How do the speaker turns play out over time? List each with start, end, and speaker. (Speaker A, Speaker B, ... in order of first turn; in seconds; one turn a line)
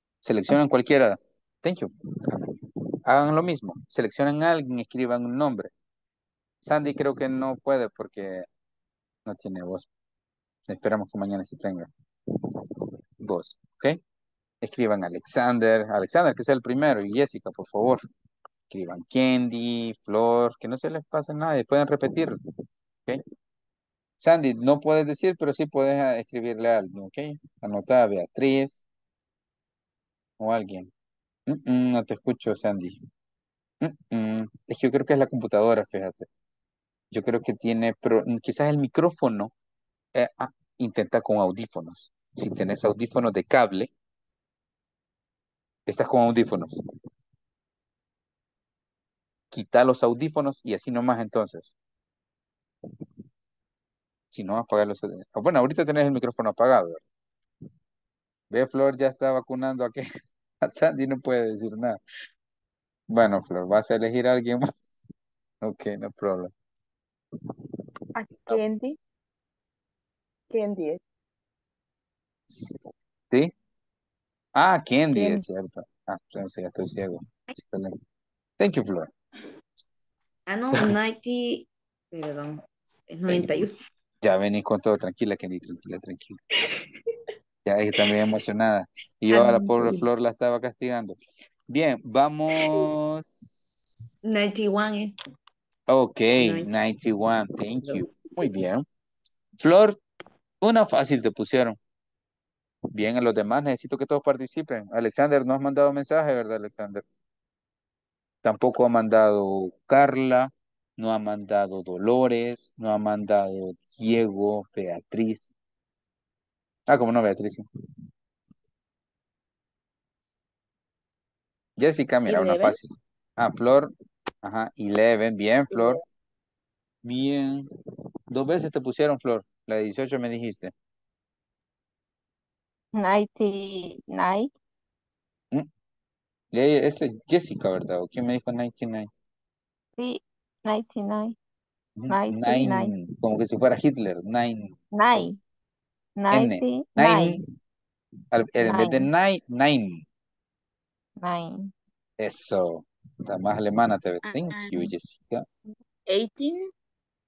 Speaker A: 0.2-5.7
Speaker A: 6.6-8.5
Speaker A: 9.3-9.9
Speaker A: 10.7-11.9
Speaker A: 13.2-14.0
Speaker A: 14.6-18.1
Speaker A: 18.7-22.4
Speaker A: 24.2-28.9
Speaker A: 30.4-30.9
Speaker A: 31.5-33.0
Speaker A: 33.8-36.3
Speaker A: 37.1-39.5
Speaker A: 40.1-43.9
Speaker A: 45.9-46.8
Speaker A: 49.5-51.7
Speaker A: 54.3-57.0
Speaker A: 58.5-60.1
Speaker A: 60.6-62.0
Speaker A: 63.1-64.7
Speaker A: 65.6-66.5
Speaker B: 68.2-69.0
Speaker B: 70.5-71.0
Speaker A: 72.5-73.5
Speaker A: 74.6-78.0
Speaker A: 78.6-79.1
Speaker C: 80.5-83.7
Speaker A: 84.2-86.4
Speaker A: 87.7-91.2
Speaker C: 89.3-90.1
Speaker A: 91.7-93.6
Speaker C: 94.2-95.2
Speaker A: 95.9-98.8
Speaker C: 96.4-96.7
Speaker A: 99.6-100.0
Speaker A: 100.6-101.8
Speaker A: 102.9-107.0
Speaker A: 108.4-115.5
Speaker A: 116.9-117.7
Speaker A: 121.8-126.0
Speaker B: 122.3-122.8
Speaker A: 127.0-127.7
Speaker A: 128.3-130.7
Speaker D: 132.9-134.5
Speaker A: 136.5-139.1
Speaker D: 140.0-141.3
Speaker A: 142.0-144.8
Speaker D: 142.1-142.9
Speaker D: 144.9-145.4
Speaker D: 146.2-147.4
Speaker A: 146.3-147.4
Speaker A: 148.3-150.1
Speaker D: 148.6-149.1
Speaker D: 151.2-151.7
Speaker A: 152.2-155.4
Speaker B: 154.3-154.6
Speaker B: 156.1-156.7